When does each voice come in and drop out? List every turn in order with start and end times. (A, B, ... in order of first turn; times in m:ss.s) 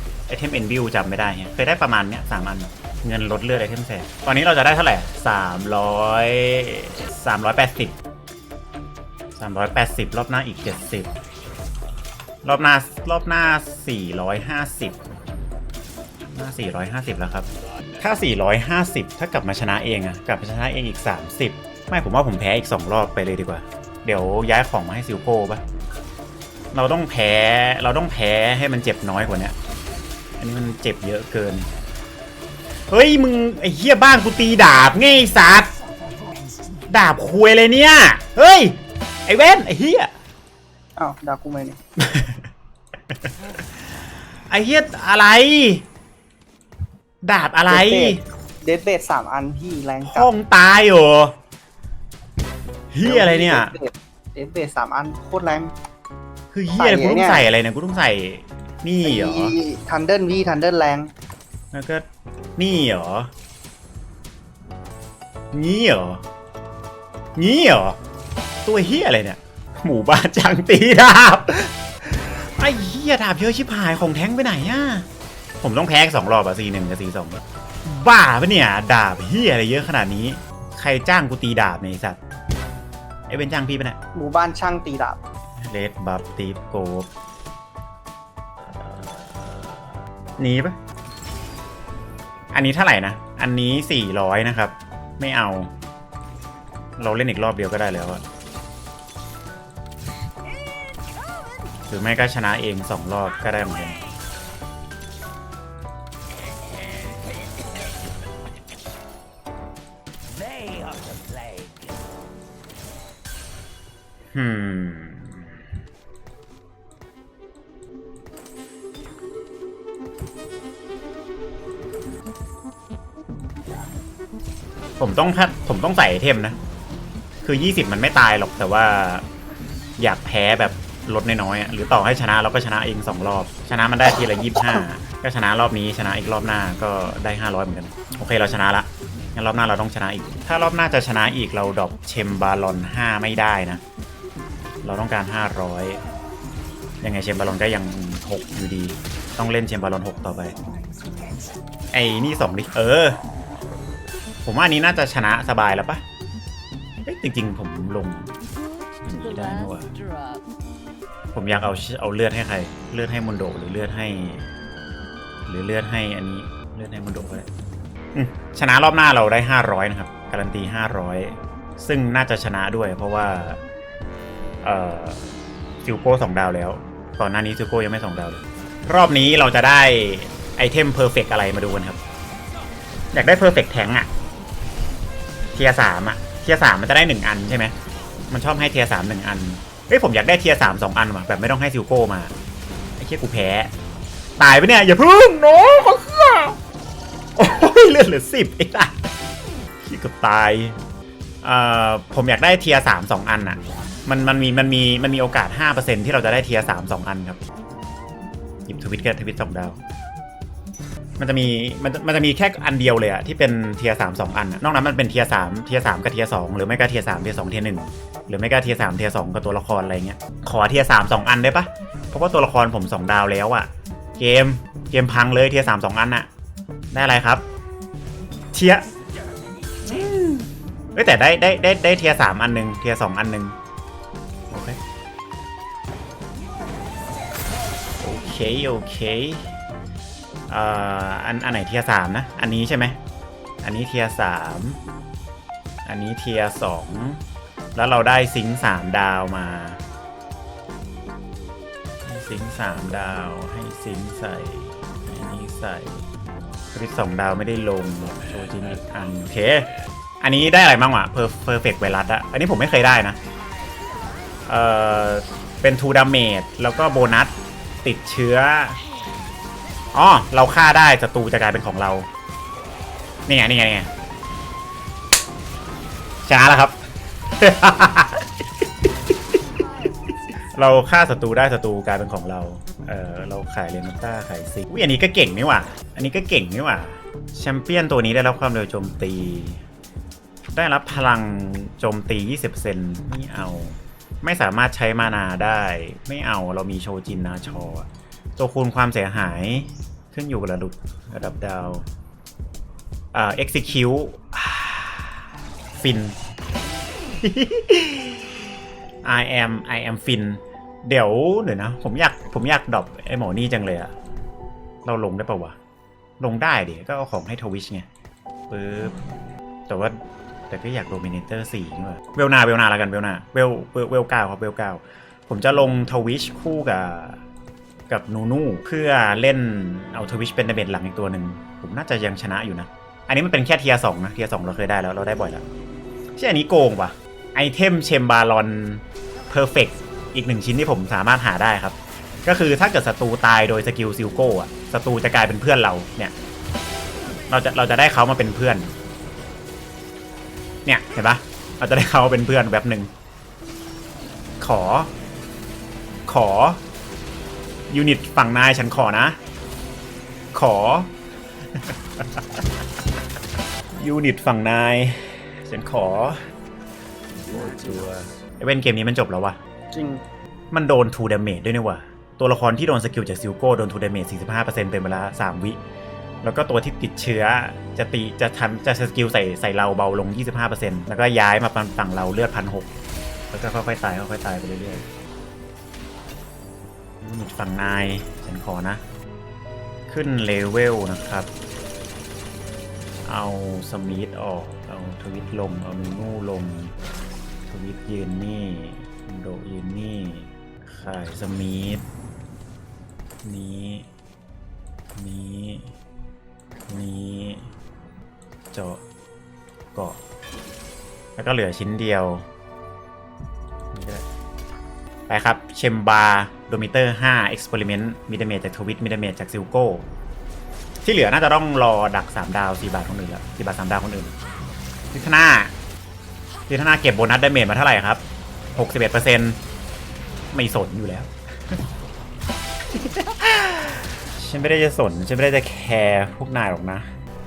0:00.3-0:08.0 A
0:09.4-0:11.1 A
0:12.4-0:15.0 A
0:16.3-0:17.5 A
0:18.0-0:25.6 A
0:26.7-0:29.6 A
0:30.4-0:31.7 A
0:32.9-0:35.7 A
0:36.9-0:40.1 A
0:41.0-0:41.8 B
0:42.0-0:42.5 A
0:44.5-0:45.8 A
0:47.2-0:48.2 A
0:47.7-0:50.3 B
0:50.0-0:51.4 A
0:52.9-0:53.7 A
0:53.0-0:55.7 B
0:56.5-0:59.6 A
0:56.8-0:57.4 B
0:59.0-1:01.1 B
1:01.7-1:02.0 A
1:02.6-1:03.3 A
1:05.5-1:06.2 A
1:07.4-1:08.0 A
1:08.6-1:15.1 A
1:15.6-1:22.2 A
1:23.3-1:24.0 A
1:24.1-1:25.2 B
1:25.6-1:27.1 A
1:28.8-1:29.8 A
1:30.4-1:30.8 A
1:32.5-1:35.7 A
1:37.0-1:38.2 A
1:41.9-1:44.0 A
1:46.9-1:47.5 C
1:50.3-1:52.0 C
1:54.3-1:55.5 A
2:05.0-2:06.6 A
2:07.4-2:09.2 A
2:10.0-2:23.8 A
2:24.8-2:26.0 A
2:27.0-2:30.6 A
2:31.9-2:33.2 A
2:34.4-2:36.0 A
2:37.0-2:38.4 A
2:39.0-2:40.4 C
2:39.0-2:39.9 A
2:41.3-2:44.5 A
2:45.5-2:47.5 A
2:48.2-2:53.6 A
2:54.6-2:55.2 A
2:55.8-3:02.0 A
3:03.1-3:04.1 A
3:05.5-3:07.7 A
3:08.3-3:12.3 A
3:13.0-3:13.7 A
3:14.4-3:16.6 A
3:17.4-3:19.0 A
3:19.8-3:20.8 A
3:21.4-3:27.4 A
3:28.7-3:29.8 A
3:31.2-3:46.3 A
3:46.9-3:47.4 A
3:48.5-3:48.9 A
3:49.8-3:53.6 A
3:54.5-3:54.8 A
3:58.0-3:59.5 A
4:00.5-4:03.0 A
4:03.6-4:04.8 A
4:05.9-4:07.2 A
4:07.8-4:09.8 A
4:12.0-4:16.0 A
4:16.7-4:19.7 A
4:20.2-4:23.2 A
4:24.5-4:28.8 A
4:29.9-4:32.1 A
4:33.3-4:33.9 A
4:36.3-4:36.8 A
4:37.4-4:39.4 A
4:40.5-4:49.6 A
4:50.5-5:01.8 A
5:03.1-5:05.2 A
5:05.8-5:06.2 A
5:07.2-5:08.2 A
5:09.0-5:13.9 A
5:14.8-5:15.6 A
5:16.2-5:17.9 A
5:18.5-5:19.0 A
5:19.7-5:20.0 A
5:20.5-5:27.2 A
5:27.9-5:35.4 A
5:36.2-5:46.1 A
5:47.3-5:48.7 A
5:50.7-5:52.9 A
5:54.4-5:54.9 A
5:56.1-5:56.6 A
5:57.7-5:59.2 A
6:00.3-6:00.9 A
6:01.6-6:02.4 A
6:03.7-6:06.2 A
6:07.3-6:09.4 A
6:09.7-6:10.0 B
6:10.5-6:15.6 A
6:16.2-6:22.7 A
6:23.3-6:24.8 A
6:27.0-6:28.8 A
6:29.9-6:31.3 A
6:33.1-6:36.7 A
6:37.5-6:41.8 A
6:43.2-6:43.9 A
6:45.0-6:45.7 A
6:46.7-6:47.5 A
6:48.5-6:48.8 A
6:49.8-6:50.0 A
6:51.2-6:52.2 A
6:53.7-6:54.0 A
6:55.1-6:59.8 A
7:00.8-7:04.2 A
7:04.9-7:05.5 A
7:06.5-7:08.0 A
7:08.6-7:09.4 A
7:10.3-7:11.6 A
7:12.7-7:16.9 A